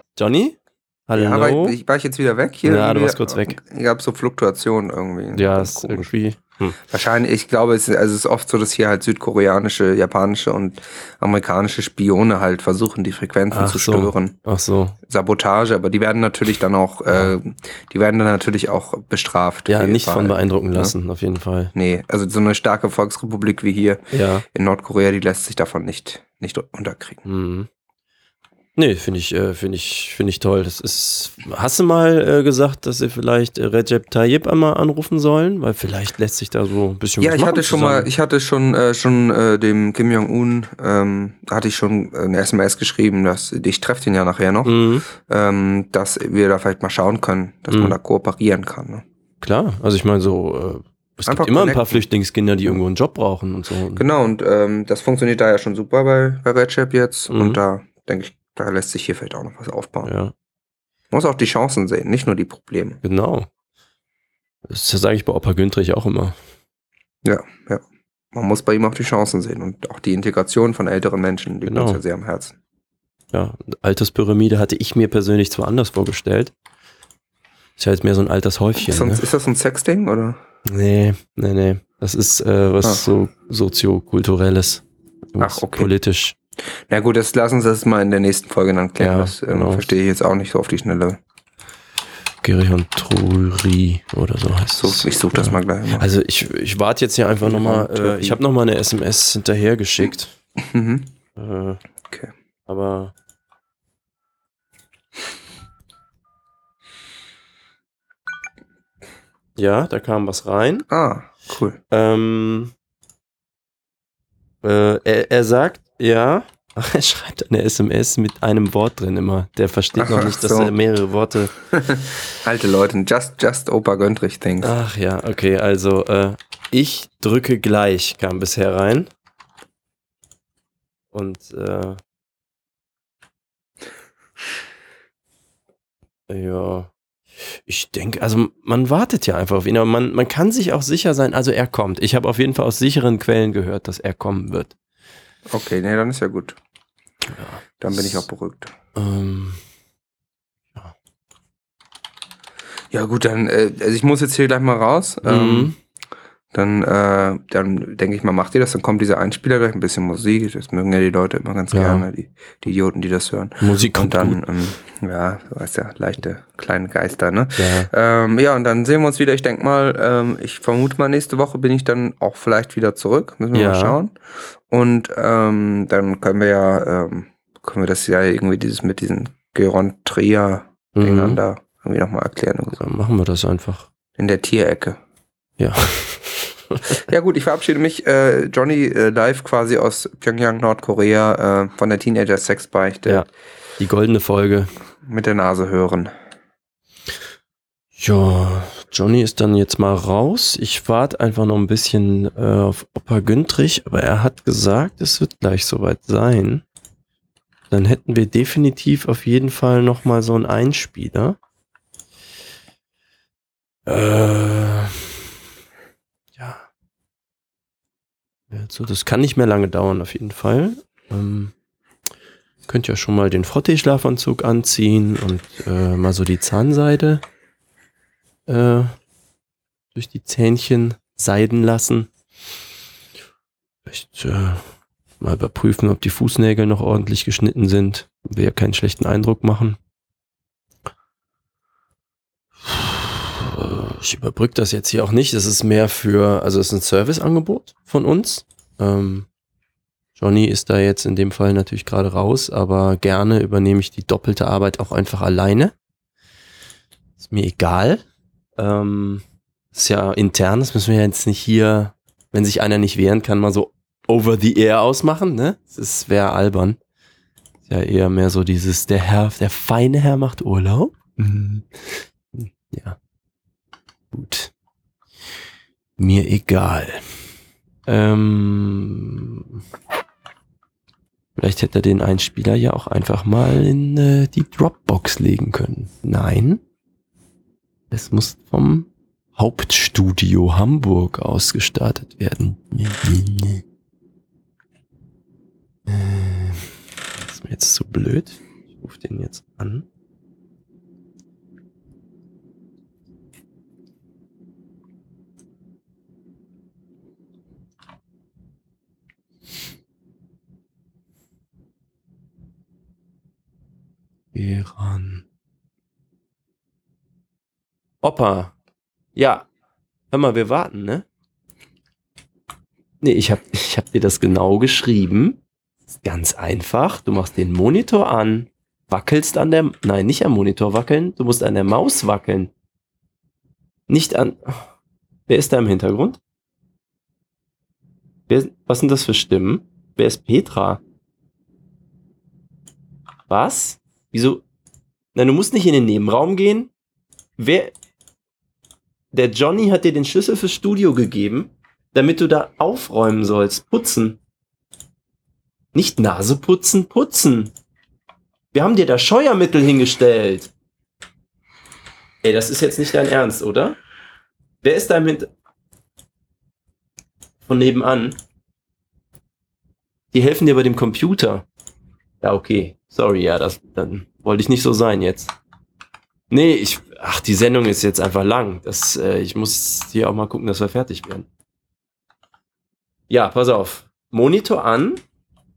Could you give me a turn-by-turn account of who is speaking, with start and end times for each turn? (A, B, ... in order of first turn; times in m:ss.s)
0:00.2-0:00.6 A
0:01.1-0:01.8 A
0:01.2-0:06.1 B
0:02.6-0:03.6 A
0:05.3-0:06.8 A
0:06.9-0:14.4 B
0:13.5-0:15.0 A
0:15.0-0:21.0 B
0:19.7-0:21.7 A
0:21.7-0:27.2 B
0:24.1-0:24.4 A
0:27.2-0:27.7 A
0:28.8-0:38.1 A
0:37.2-0:49.0 B
0:44.6-0:45.1 A
0:47.7-0:48.0 A
0:49.4-0:54.0 A
0:51.3-0:52.0 B
0:54.0-1:00.1 B
0:57.3-0:57.6 A
1:00.0-1:00.3 A
1:01.1-1:03.0 B
1:03.0-1:03.5 A
1:04.7-1:06.4 A
1:07.2-1:12.6 B
1:11.7-1:12.0 A
1:13.3-1:16.5 A
1:17.8-1:19.3 A
1:18.8-1:20.4 B
1:20.7-1:24.8 A
1:25.3-1:26.4 A
1:25.4-1:25.9 B
1:26.9-1:31.2 B
1:29.0-1:29.9 A
1:32.4-1:40.3 A
1:34.8-1:36.1 B
1:37.4-1:38.4 B
1:40.6-1:41.1 B
1:41.4-1:41.8 A
1:42.7-1:43.1 A
1:49.6-1:50.9 A
1:50.9-1:51.8 B
1:51.9-1:52.7 A
1:54.6-2:01.5 A
2:00.0-2:00.7 B
2:01.7-2:04.8 B
2:04.6-2:09.1 A
2:11.1-2:12.0 A
2:16.3-2:16.9 A
2:17.4-2:24.8 A
2:25.5-2:26.6 B
2:27.3-2:28.2 A
2:27.8-2:28.7 B
2:29.0-2:29.6 A
2:32.9-2:35.8 B
2:35.2-2:35.8 A
2:36.5-2:54.2 B
2:41.7-2:42.1 A
2:43.6-2:44.4 A
2:47.6-2:47.9 A
2:53.5-2:54.0 A
2:54.7-3:02.8 B
3:01.0-3:01.4 A
3:02.8-3:03.9 A
3:04.2-3:05.0 B
3:05.6-3:07.0 A
3:07.1-3:13.3 B
3:13.8-3:14.7 A
3:15.0-3:16.1 B
3:18.0-3:26.6 A
3:27.7-3:31.4 A
3:33.9-3:35.1 A
3:36.4-3:36.7 A
3:38.5-3:41.5 A
3:42.7-3:47.2 A
3:48.5-3:49.0 A
3:50.0-3:52.1 A
3:53.9-3:59.8 A
4:02.7-4:09.3 A
4:10.2-4:15.7 A
4:17.2-4:18.0 A
4:18.6-4:19.2 A
4:19.7-4:26.8 A
4:27.7-4:31.7 A
4:32.3-4:33.0 A
4:34.1-4:34.5 A
4:36.0-4:37.0 A
4:37.9-4:39.6 A
4:41.4-4:46.6 A
4:47.9-4:53.6 A
4:55.9-4:59.8 A
5:14.3-5:15.2 A
5:18.0-5:18.5 A
5:19.2-5:19.5 A
5:20.1-5:21.0 A
5:23.0-5:25.4 A
5:25.9-5:32.5 A
5:33.9-5:34.6 A
5:35.3-5:36.2 A
5:38.3-5:40.8 A
5:43.3-5:44.4 A
5:45.2-5:46.7 A
5:47.4-5:47.7 A
5:49.1-5:54.2 A
5:55.7-5:57.5 A
5:58.5-6:00.5 A
6:02.2-6:03.8 A
6:04.6-6:05.3 A
6:07.4-6:08.2 A
6:10.1-6:11.5 A
6:12.2-6:15.3 A
6:16.3-6:21.3 A
6:23.1-6:25.0 A